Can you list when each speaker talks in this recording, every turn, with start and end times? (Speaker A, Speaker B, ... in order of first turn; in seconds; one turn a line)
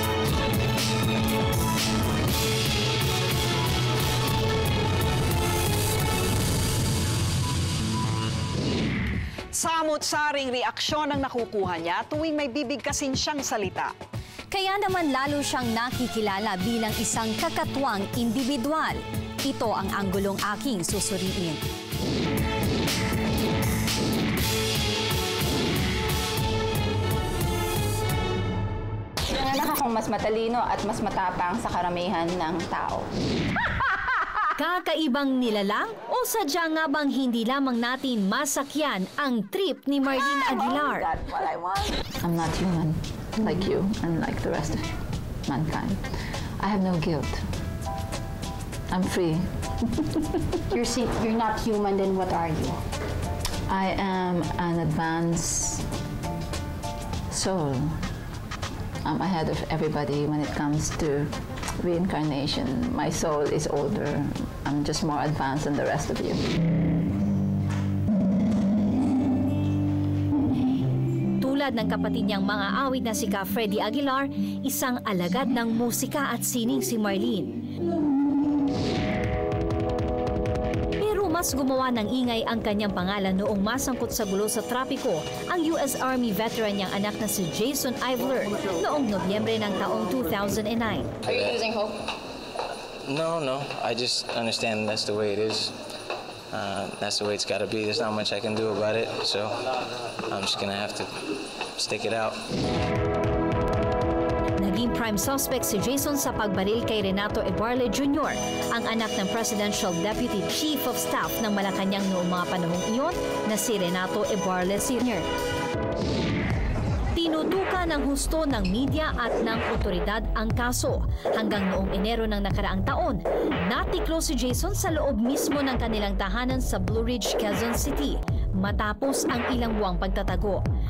Speaker A: 9.5-13.9
Speaker B: 14.5-21.6
Speaker C: 29.3-33.1
Speaker B: 34.6-41.1
Speaker C: 40.1-44.9
Speaker C: 45.5-46.0
Speaker C: 46.6-47.4
Speaker C: 48.9-50.6
Speaker D: 50.7-52.8
Speaker C: 53.7-55.8
Speaker C: 57.3-58.0
Speaker C: 59.0-66.4
Speaker B: 71.4-77.7
Speaker B: 81.0-91.1
Speaker E: 91.2-91.8
Speaker E: 93.0-95.7
Speaker E: 96.5-99.6
Speaker E: 100.3-102.4
Speaker B: 104.6-115.2
Speaker B: 117.1-130.6